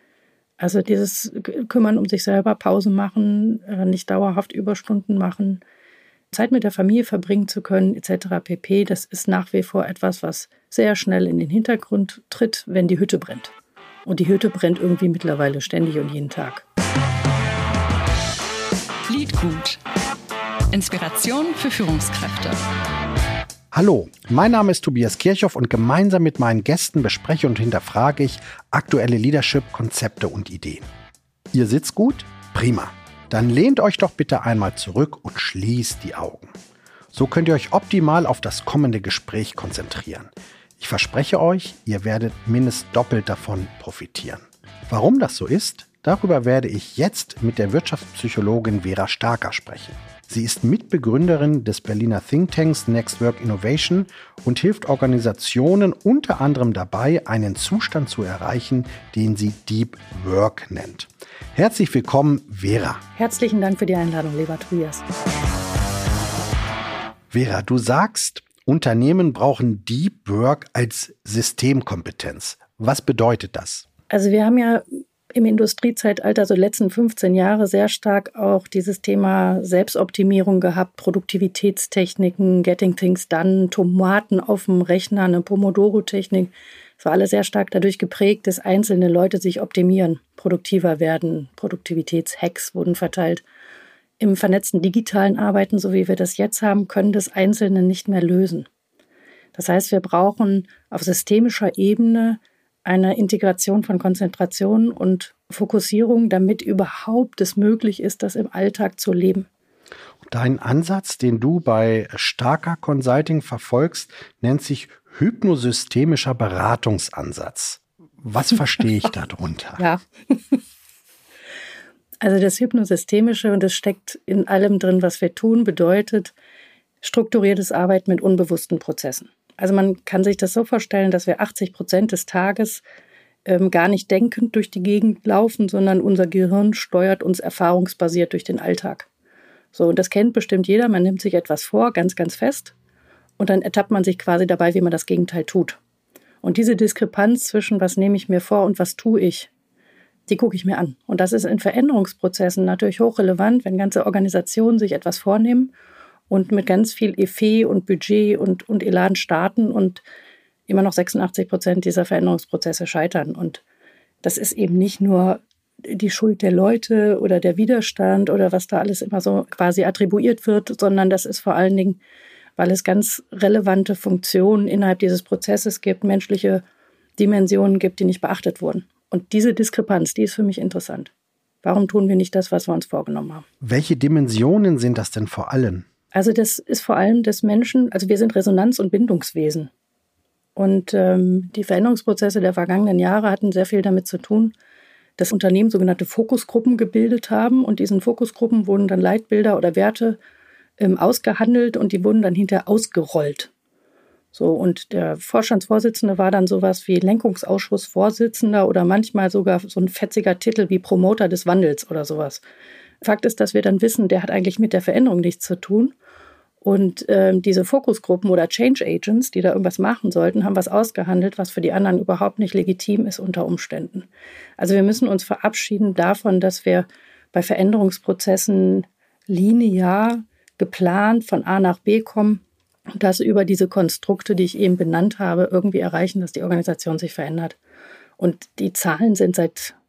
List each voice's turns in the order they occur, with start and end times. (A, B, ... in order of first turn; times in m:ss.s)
0:00.6-0:05.6 A
0:06.3-0:13.5 A
0:14.0-0:16.6 A
0:19.1-0:19.8 B
0:20.7-0:22.6 B
0:23.7-0:30.9 C
0:31.5-0:36.5 C
0:37.1-1:03.0 C
1:03.2-1:05.0 A
1:07.3-1:13.8 C
1:14.1-1:33.4 A
1:34.2-1:38.7 A
1:39.5-1:49.5 A
1:50.2-1:59.8 C
1:59.8-2:00.6 A
2:02.2-2:06.3 A
2:07.0-2:12.8 A
2:13.4-2:19.1 A
2:19.7-2:22.7 A
2:23.4-2:25.8 A
2:26.4-2:29.5 A
2:30.3-2:35.7 A
2:36.3-2:40.0 A
2:40.7-2:43.6 A
2:44.2-2:52.0 A
2:52.6-2:56.6 A
2:57.2-3:01.1 A
3:01.6-3:03.4 A
3:03.6-3:05.8 C
3:06.1-3:09.7 A
3:10.6-3:14.5 A
3:15.2-3:20.2 A
3:20.8-3:23.5 A
3:24.3-3:32.4 A
3:33.0-3:35.9 A
3:36.6-3:52.4 A
3:53.0-3:57.6 A
3:58.2-3:59.8 A